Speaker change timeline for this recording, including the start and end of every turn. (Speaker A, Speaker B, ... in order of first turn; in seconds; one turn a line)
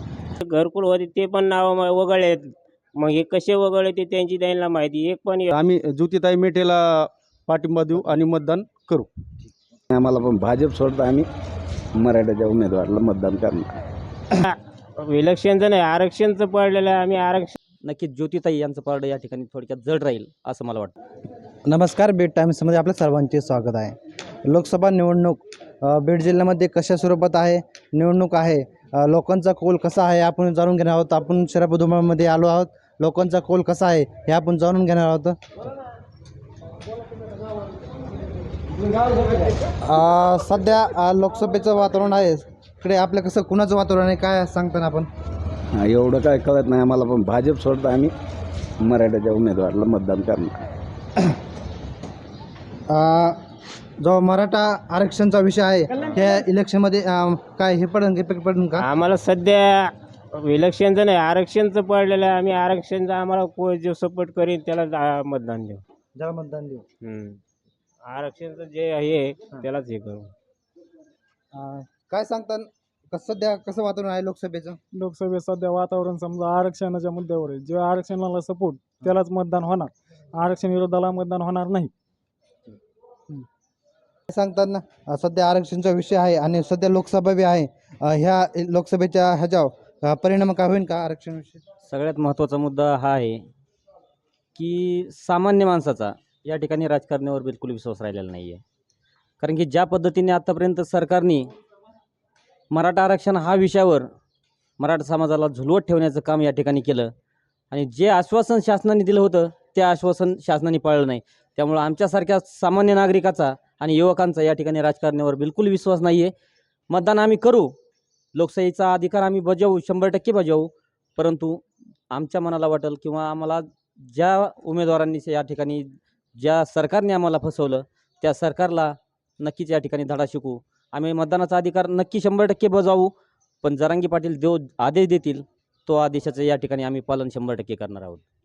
Speaker A: 0.4-5.5
Speaker B: 5.5-9.1
Speaker C: 9.9-11.3
Speaker C: 12.0-13.7
Speaker A: 14.3-17.6
Speaker D: 17.8-20.9
Speaker E: 21.7-23.9
Speaker E: 24.5-35.4
Speaker E: 39.9-45.1
Speaker C: 45.7-48.1
Speaker C: 48.8-50.5
Speaker E: 52.9-53.4
Speaker E: 54.0-58.9
Speaker A: 58.8-65.8
Speaker E: 66.2-66.8
Speaker A: 67.0-67.4
Speaker A: 68.0-70.3
Speaker E: 71.5-74.8
Speaker F: 75.0-81.9
Speaker E: 84.3-91.6
Speaker D: 91.9-93.5
Speaker D: 94.6-98.6
Speaker D: 99.4-101.5
Speaker D: 102.7-104.1
Speaker D: 104.8-107.1
Speaker D: 107.7-116.3
Speaker D: 116.9-117.7
Speaker D: 118.3-133.1
Speaker D: 133.6-138.2